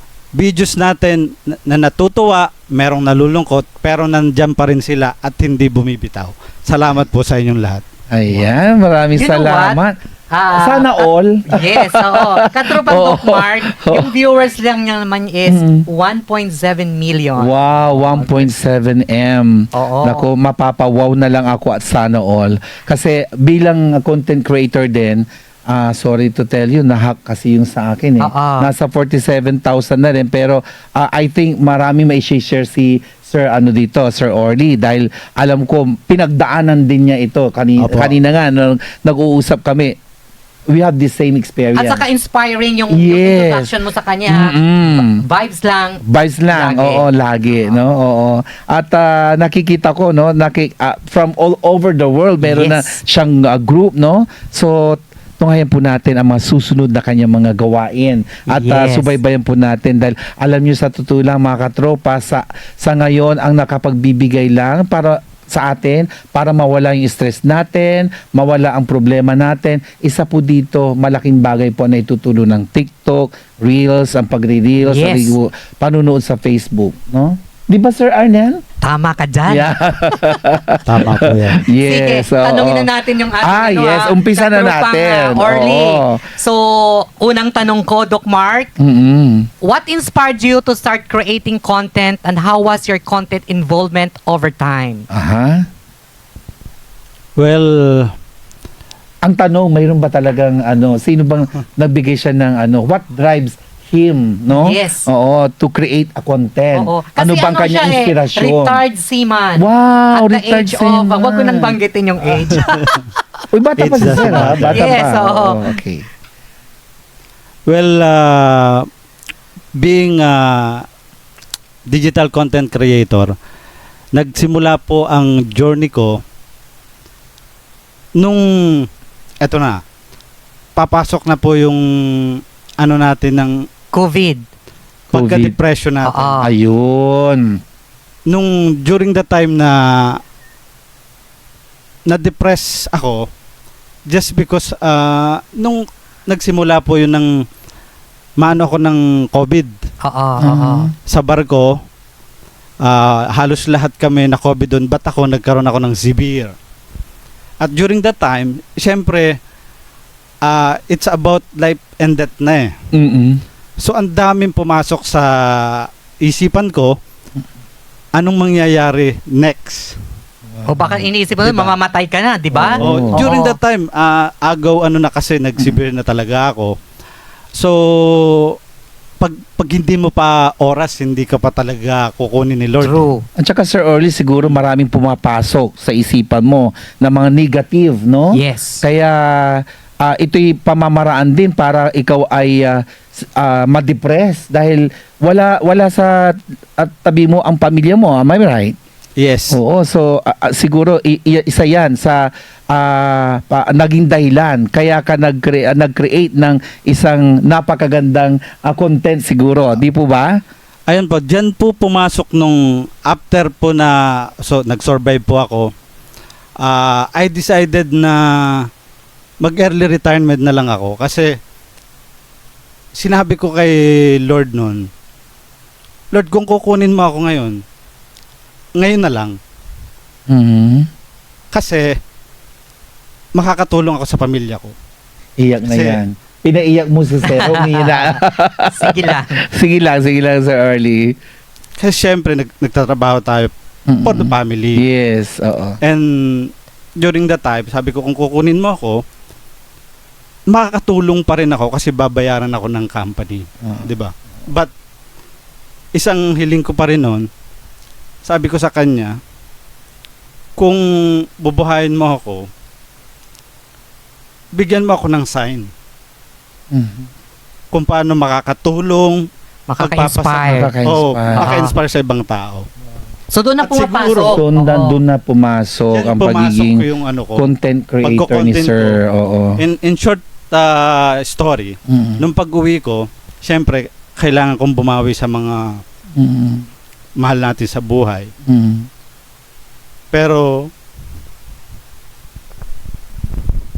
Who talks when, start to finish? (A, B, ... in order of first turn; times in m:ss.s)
0:00.3-0:07.8 A
0:08.1-0:09.9 B
0:09.2-0:09.8 C
0:10.3-0:18.5 C
0:10.5-0:14.1 B
0:15.4-0:15.9 B
0:17.4-0:39.9 B
0:19.7-0:20.3 C
0:28.2-0:28.7 C
0:37.8-0:38.2 A
0:40.7-0:42.0 B
0:41.7-0:47.7 C
0:42.9-0:43.7 B
0:44.3-0:45.2 B
0:46.0-1:18.6 B
0:52.4-0:52.9 C
0:58.5-0:59.2 C
1:14.8-1:15.4 C
1:18.8-1:20.4 C
1:19.4-1:26.2 B
1:20.8-1:21.6 A
1:21.7-1:28.7 C
1:28.8-1:29.5 B
1:29.6-1:35.1 C
1:35.1-1:35.6 B
1:37.4-1:38.1 A
1:39.2-1:48.8 B
1:44.5-1:45.1 C
1:46.7-1:53.0 C
1:49.6-1:51.8 B
1:52.7-1:53.0 A
1:53.5-1:56.0 B
1:53.8-1:54.8 A
1:54.2-1:55.7 C
1:57.7-1:58.8 A
1:59.8-2:00.8 A
2:01.9-2:03.3 A
2:04.1-2:06.1 A
2:08.2-2:08.9 A
2:09.4-2:09.8 A
2:10.8-2:11.8 A
2:12.3-2:13.6 A
2:13.9-2:14.5 C
2:15.1-2:16.4 A
2:15.1-2:15.5 B
2:16.0-2:16.5 C
2:16.4-2:17.6 B
2:18.3-2:20.2 A
2:22.1-2:23.2 A
2:24.1-2:27.3 A
2:28.4-2:29.8 A
2:30.0-2:30.9 C
2:30.4-2:30.9 B
2:31.1-2:31.7 A
2:32.8-2:36.5 A
2:37.6-2:39.3 A
2:40.4-2:42.7 A
2:42.9-2:43.4 B
2:43.8-2:46.9 A
2:48.2-2:50.0 A
2:50.5-2:51.1 B
2:50.7-2:53.6 C
2:51.4-2:51.7 A
2:52.5-2:53.3 B
2:52.8-2:56.7 A
2:57.5-2:58.6 A
2:59.2-3:03.1 A
3:02.8-3:03.2 C
3:03.4-3:18.7 B
3:08.3-3:08.8 C
3:19.2-3:19.6 A
3:19.5-3:30.4 B
3:30.9-3:35.7 A
3:36.6-3:38.6 A
3:39.4-3:41.3 A
3:43.0-3:44.8 A
3:46.1-3:47.6 A
3:48.8-3:49.4 A
3:50.3-3:50.9 B
3:51.5-3:51.8 A
3:53.4-3:54.7 A
3:55.4-4:01.2 B
3:55.7-3:56.0 A
3:57.2-3:59.4 C
4:01.8-4:03.5 A
4:03.9-4:05.8 B
4:04.0-4:04.8 A
4:05.8-4:09.0 A
4:10.5-4:14.7 A
4:13.6-4:13.9 B
4:15.9-4:17.3 A
4:18.2-4:19.1 A
4:21.4-4:22.5 A
4:24.5-4:25.7 A
4:26.7-4:27.1 B
4:27.7-4:29.2 A
4:29.7-4:30.7 C
4:29.8-4:32.6 A
4:30.4-4:31.5 B
4:31.3-4:31.7 C
4:33.3-4:35.0 C
4:33.6-4:34.4 A
4:34.3-4:39.6 B
4:35.9-4:37.4 A
4:38.0-4:39.0 A
4:39.6-4:45.8 A
4:41.9-4:42.2 B
4:46.2-4:46.6 B
4:47.2-4:48.3 A
4:48.4-4:48.9 B
4:50.1-4:50.7 A